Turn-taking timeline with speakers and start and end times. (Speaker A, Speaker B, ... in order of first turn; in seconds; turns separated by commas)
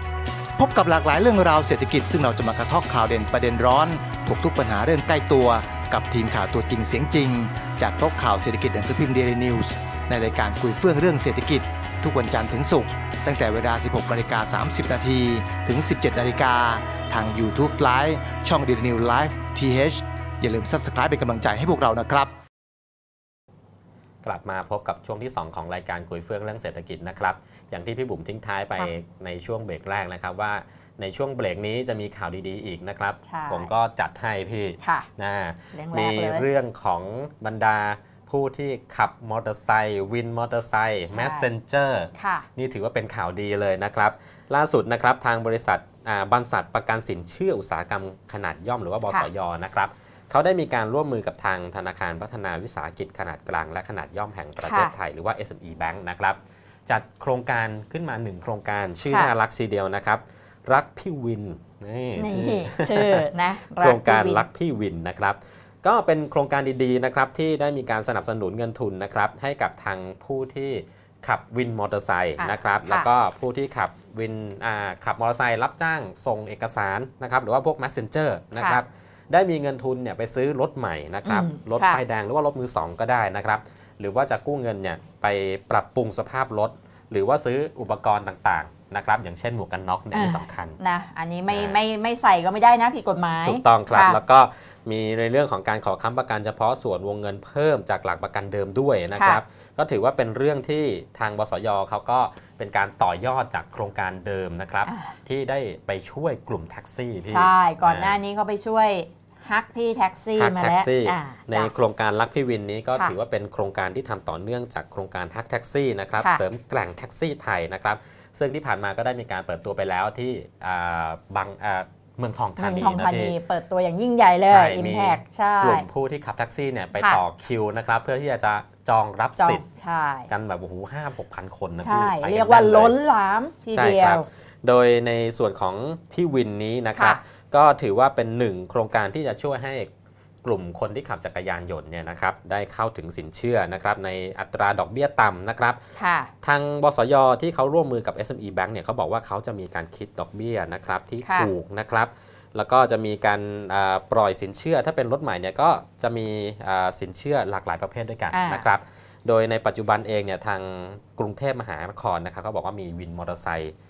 Speaker A: 0.6-22.3, Speaker B: 24.2-90.8, Speaker C: 33.2-33.7, Speaker C: 34.8-35.1, Speaker C: 35.7-36.5, Speaker C: 41.1-41.5, Speaker C: 42.1-42.5, Speaker C: 54.6-54.9, Speaker C: 62.1-64.5, Speaker C: 72.4-73.1, Speaker C: 78.5-78.8, Speaker C: 81.2-82.0, Speaker C: 90.1-94.2, Speaker B: 91.5-91.8, Speaker B: 93.4-108.2, Speaker C: 99.2-99.4, Speaker C: 104.9-105.1, Speaker C: 107.2-111.7, Speaker B: 110.4-123.3, Speaker C: 122.6-125.9, Speaker B: 124.4-129.6, Speaker C: 129.4-130.3, Speaker B: 130.3-133.0, Speaker C: 131.8-134.2, Speaker B: 133.7-139.9, Speaker B: 140.4-145.8, Speaker C: 146.0-146.3, Speaker B: 146.4-163.7, Speaker C: 151.2-151.5, Speaker C: 158.3-158.7